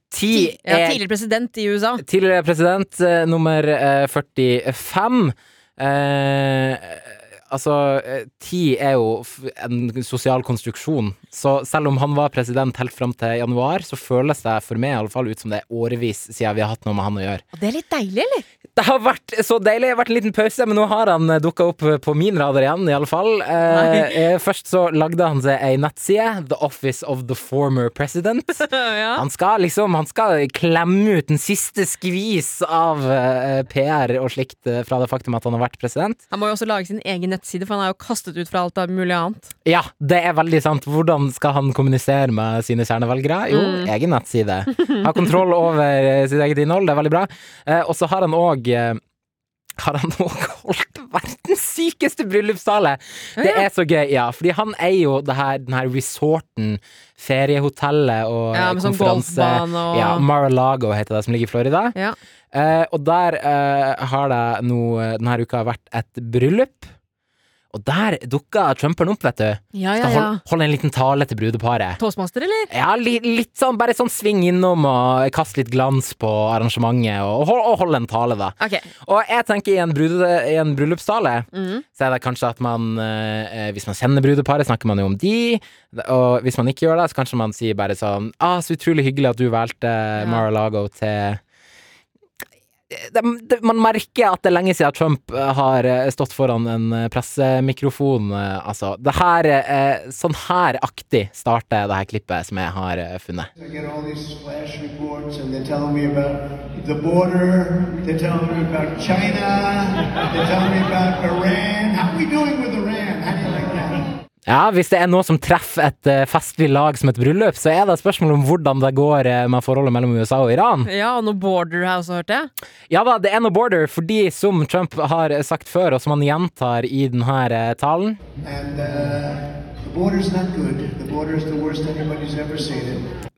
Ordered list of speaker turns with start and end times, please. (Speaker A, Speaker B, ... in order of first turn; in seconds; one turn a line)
Speaker A: 0.1-1.0
Speaker B: 0.3-2.0
Speaker A: 2.0-17.4
Speaker B: 17.5-18.4
Speaker A: 18.7-36.2
Speaker B: 23.7-24.2
Speaker B: 28.6-29.2
Speaker B: 36.3-39.5
Speaker A: 39.6-49.0
Speaker B: 43.5-43.9
Speaker A: 49.8-61.9
Speaker B: 53.4-53.6
Speaker B: 58.5-60.2
Speaker A: 62.5-66.9
Speaker A: 67.7-72.0
Speaker B: 69.7-70.4
Speaker B: 72.0-72.7
Speaker A: 72.7-91.4
Speaker B: 78.6-78.9
Speaker B: 81.5-81.8
Speaker B: 90.2-90.4
Speaker A: 92.9-103.5
Speaker C: 103.6-114.1
Speaker A: 114.5-120.9
Speaker B: 120.8-122.5
Speaker A: 122.9-128.2
Speaker C: 128.4-133.1